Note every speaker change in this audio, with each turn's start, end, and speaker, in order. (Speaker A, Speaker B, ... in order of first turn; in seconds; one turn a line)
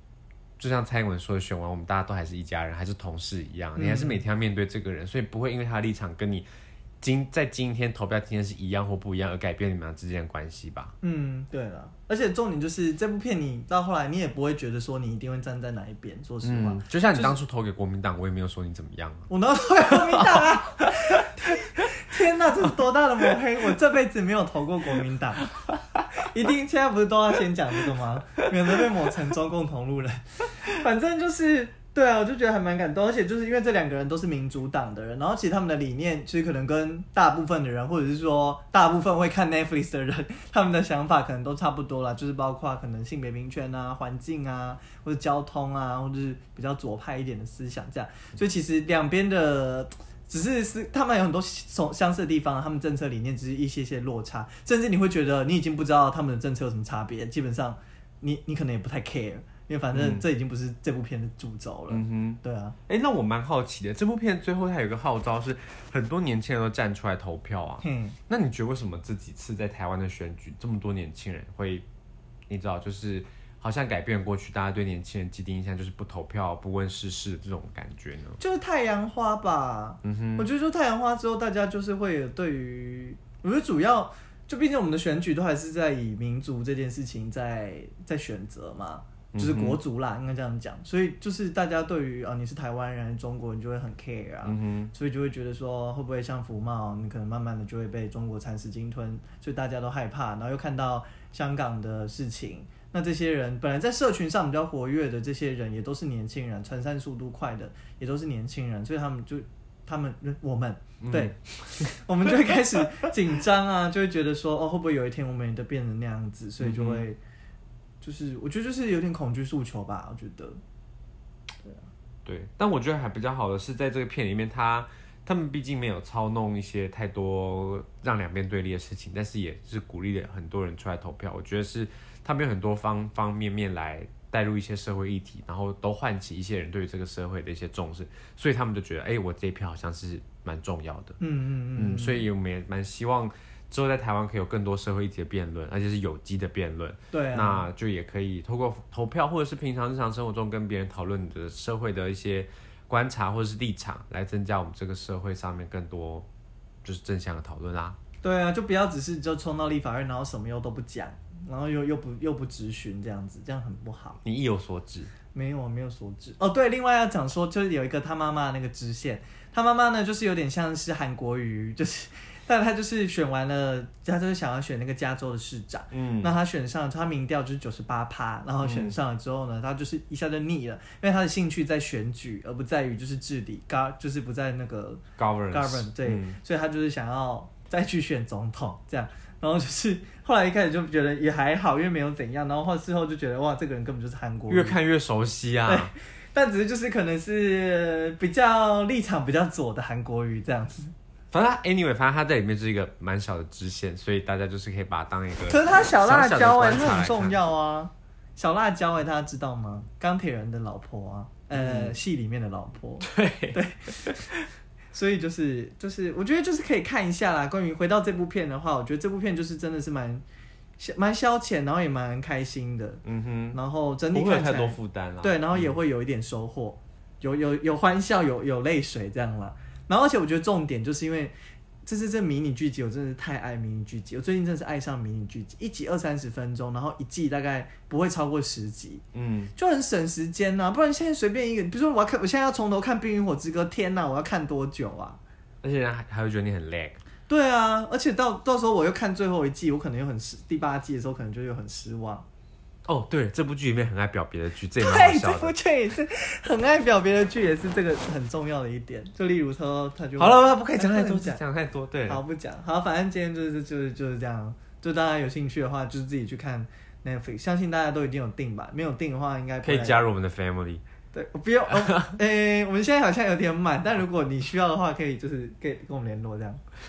Speaker A: 0.6-6.5
Speaker B: 3.8-4.2
Speaker A: 7.0-10.9
Speaker B: 11.0-17.4
Speaker A: 16.4-19.3
Speaker B: 19.3-25.5
Speaker A: 19.9-20.9
Speaker B: 26.2-62.8
Speaker A: 59.9-60.2
Speaker A: 61.9-71.8
Speaker B: 67.8-68.2
Speaker A: 72.5-78.4
Speaker B: 78.4-117.2
Speaker A: 80.0-80.5
Speaker A: 89.3-89.8
Speaker A: 94.4-94.9
Speaker A: 111.0-112.5
Speaker A: 116.6-117.0
Speaker B: 118.0-120.6
Speaker A: 122.2-141.2
Speaker B: 141.2-142.3
Speaker A: 141.8-156.3
Speaker B: 147.1-147.7
Speaker A: 156.8-158.0
Speaker B: 158.2-164.2
Speaker A: 164.2-165.1
Speaker B: 165.3-194.8
Speaker A: 175.9-176.3
Speaker A: 178.6-179.0
Speaker A: 185.2-186.4
Speaker A: 194.5-195.9
Speaker B: 195.7-200.9
Speaker A: 201.3-207.4
Speaker B: 205.5-214.1
Speaker A: 211.5-212.0
Speaker A: 213.0-214.5
Speaker B: 214.9-220.2
Speaker B: 220.8-223.0
Speaker A: 223.1-223.6
Speaker B: 223.5-231.3
Speaker A: 224.1-225.8
Speaker B: 231.8-239.0
Speaker A: 239.1-239.5
Speaker B: 239.6-245.2
Speaker A: 245.6-247.0
Speaker B: 247.3-252.2
Speaker A: 252.9-255.6
Speaker B: 254.8-261.4
Speaker A: 260.2-262.2
Speaker B: 262.1-270.1
Speaker A: 269.6-270.8
Speaker B: 271.1-276.6
Speaker A: 271.8-272.2